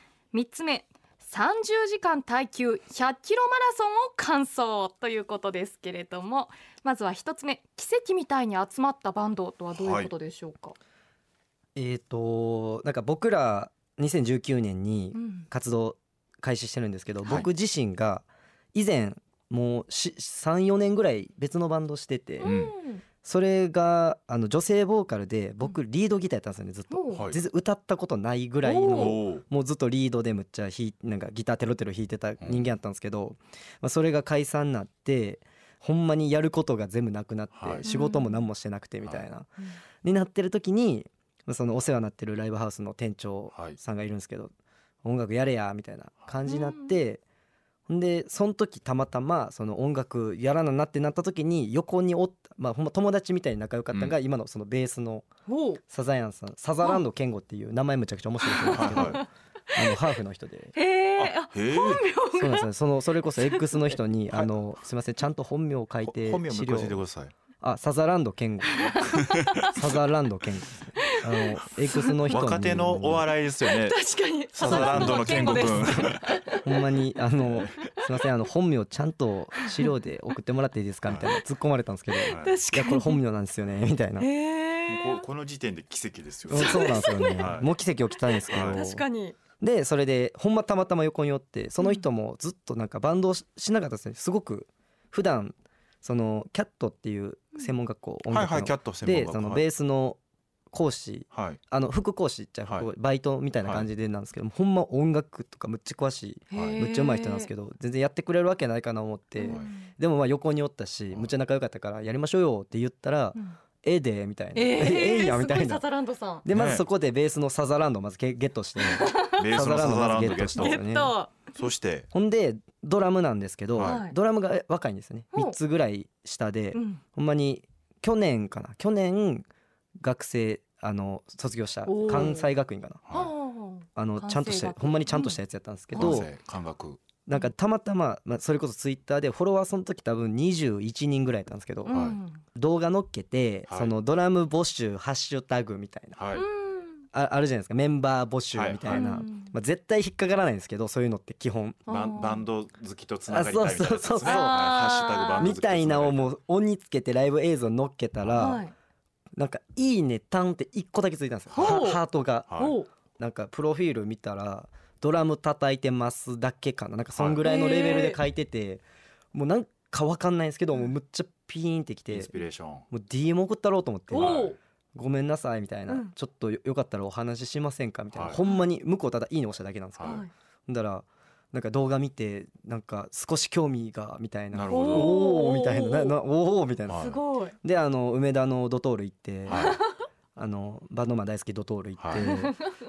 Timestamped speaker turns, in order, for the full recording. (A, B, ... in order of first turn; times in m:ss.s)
0:00.3-0:10.8 A
0:09.7-0:10.1 B
0:11.8-0:22.6 C
0:15.1-0:15.5 A
0:22.4-0:23.0 A
0:22.4-0:22.7 B
0:23.2-0:44.5 C
0:26.9-0:27.3 A
0:28.6-0:29.2 A
0:28.9-0:29.4 B
0:32.4-0:32.7 B
0:37.5-0:37.8 B
0:37.8-0:38.4 A
0:43.5-0:43.8 B
0:45.0-0:47.2 C
0:46.5-0:46.9 A
0:47.9-0:55.3 C
0:53.9-0:54.2 B
0:55.5-0:55.8 A
0:55.9-1:00.7 C
0:58.4-1:00.0 A
0:58.7-0:59.2 B
1:00.7-1:02.7 A
1:01.2-1:02.0 B
1:02.3-1:07.0 C
1:03.4-1:03.9 A
1:06.0-1:07.3 B
1:07.6-1:09.1 C
1:08.8-1:09.1 A
1:09.1-1:09.7 B
1:09.6-1:13.3 C
1:12.2-1:14.0 B
1:13.6-1:16.6 A
1:14.5-1:16.3 B
1:14.6-1:24.3 C
1:17.4-1:17.9 B
1:22.1-1:23.2 A
1:22.2-1:22.6 B
1:24.2-1:25.2 A
1:24.9-1:27.7 B
1:26.5-1:29.0 C
1:26.5-1:27.5 A
1:28.4-1:29.4 A
1:28.5-1:28.8 B
1:29.6-1:40.2 C
1:31.8-1:32.0 A
1:38.3-1:39.6 B
1:40.7-1:55.8 C
1:41.3-1:41.6 B
1:43.6-1:43.9 B
1:46.5-1:47.5 A
1:46.5-1:46.8 B
1:49.4-1:49.9 A
1:54.5-1:56.4 A
1:56.4-2:01.1 C
1:56.5-1:56.8 B
1:58.8-1:59.4 A
1:59.1-2:00.8 B
2:00.6-2:01.5 A
2:01.5-2:02.1 B
2:02.1-2:09.5 C
2:03.8-2:04.2 A
2:06.7-2:07.0 A
2:10.0-2:13.0 C
2:11.8-2:12.5 A
2:13.1-2:13.3 B
2:13.1-2:15.4 A
2:14.0-2:16.3 C
2:15.9-2:16.2 A
2:15.9-2:17.0 B
2:17.2-2:22.0 C
2:21.8-2:22.4 A
2:21.9-2:22.2 B
2:22.5-2:26.2 C
2:23.7-2:23.9 B
2:26.1-2:26.4 B
2:26.3-2:27.0 A
2:27.1-2:31.8 C
2:28.5-2:29.1 B
2:28.9-2:29.5 A
2:31.8-2:32.5 A
2:31.9-2:36.3 B
2:33.3-2:34.8 C
2:34.2-2:35.6 A
2:35.4-2:38.6 C
2:38.3-2:38.7 A
2:39.4-2:48.8 C
2:41.5-2:41.9 B
2:41.6-2:42.0 A
2:42.5-2:42.8 B
2:42.6-2:42.9 A
2:47.2-2:47.4 B
2:47.4-2:48.2 A
2:49.3-2:52.3 C
2:52.1-2:52.8 B
2:52.9-3:09.8 C
2:54.1-2:54.6 A
2:54.1-2:54.5 B
2:55.9-2:56.1 A
2:58.1-2:58.4 B
2:58.4-2:58.6 A
3:00.0-3:00.2 B
3:00.0-3:00.3 A
3:04.5-3:05.2 B
3:04.7-3:06.2 A
3:06.9-3:07.2 B
3:06.9-3:07.6 A
3:09.5-3:09.8 B
3:09.5-3:09.8 A
3:10.4-3:12.6 C
3:12.0-3:12.3 B
3:12.1-3:12.7 A